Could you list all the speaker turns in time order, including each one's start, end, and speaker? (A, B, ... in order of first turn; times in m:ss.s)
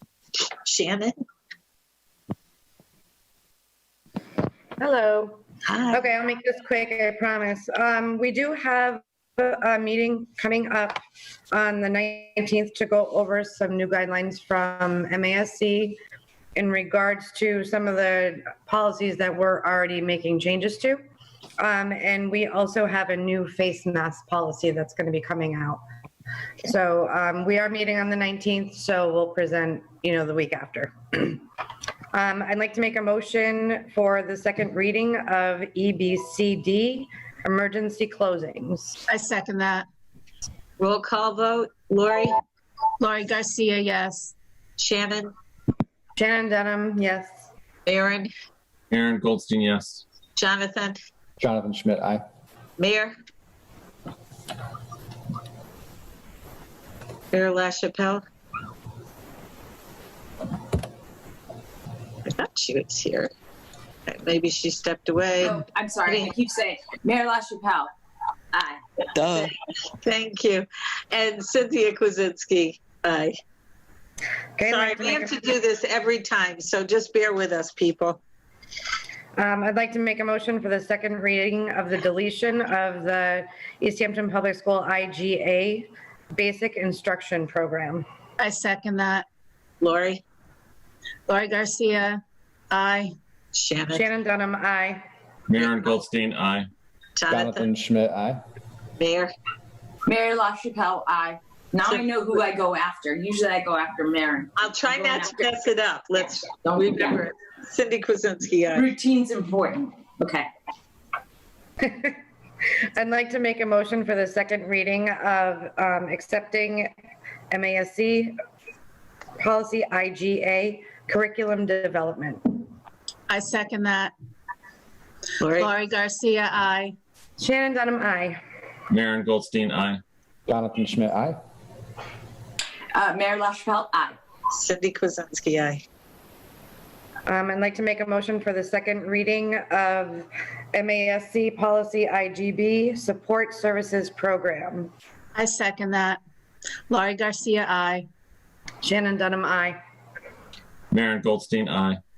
0:00.4-0:01.2 A
0:04.8-0:11.0 B
0:05.6-0:06.1 A
0:11.5-0:16.0 B
0:16.6-0:21.0 B
0:21.6-0:25.8 B
0:26.6-0:31.4 B
0:32.1-0:39.0 B
0:39.1-0:39.9 C
0:40.8-0:42.4 A
0:43.0-0:44.3 C
0:44.8-0:45.3 A
0:46.2-0:47.5 B
0:47.9-0:48.3 A
0:48.9-0:50.0 D
0:50.4-0:51.0 A
0:51.4-0:52.2 E
0:52.8-0:53.1 A
0:57.3-0:58.2 A
1:02.2-1:03.3 A
1:04.1-1:06.3 A
1:05.4-1:07.9 F
1:09.3-1:09.5 A
1:10.0-1:13.3 A
1:14.6-1:15.3 B
1:14.7-1:18.2 A
1:19.4-1:28.0 B
1:28.4-1:29.3 C
1:29.8-1:30.2 A
1:31.3-1:32.2 C
1:32.7-1:33.1 C
1:33.6-1:34.1 A
1:33.9-1:35.0 B
1:35.5-1:36.7 D
1:35.6-1:36.0 A
1:37.2-1:37.7 A
1:37.3-1:38.4 E
1:39.0-1:39.3 A
1:40.1-1:41.4 F
1:41.8-1:42.4 A
1:42.0-1:45.4 F
1:44.6-1:48.9 A
1:46.7-1:47.1 F
1:48.8-1:50.4 F
1:51.8-1:52.2 B
1:53.0-1:56.9 B
1:57.5-1:58.4 B
1:59.4-2:02.6 B
2:03.3-2:04.1 C
2:05.4-2:05.7 A
2:05.6-2:06.9 C
2:07.4-2:08.4 B
2:08.9-2:10.0 D
2:10.5-2:11.4 E
2:13.0-2:14.1 F
2:14.5-2:15.8 A
2:17.3-2:24.9 B
2:25.4-2:26.2 C
2:26.9-2:28.1 C
2:28.8-2:29.8 B
2:30.9-2:32.0 D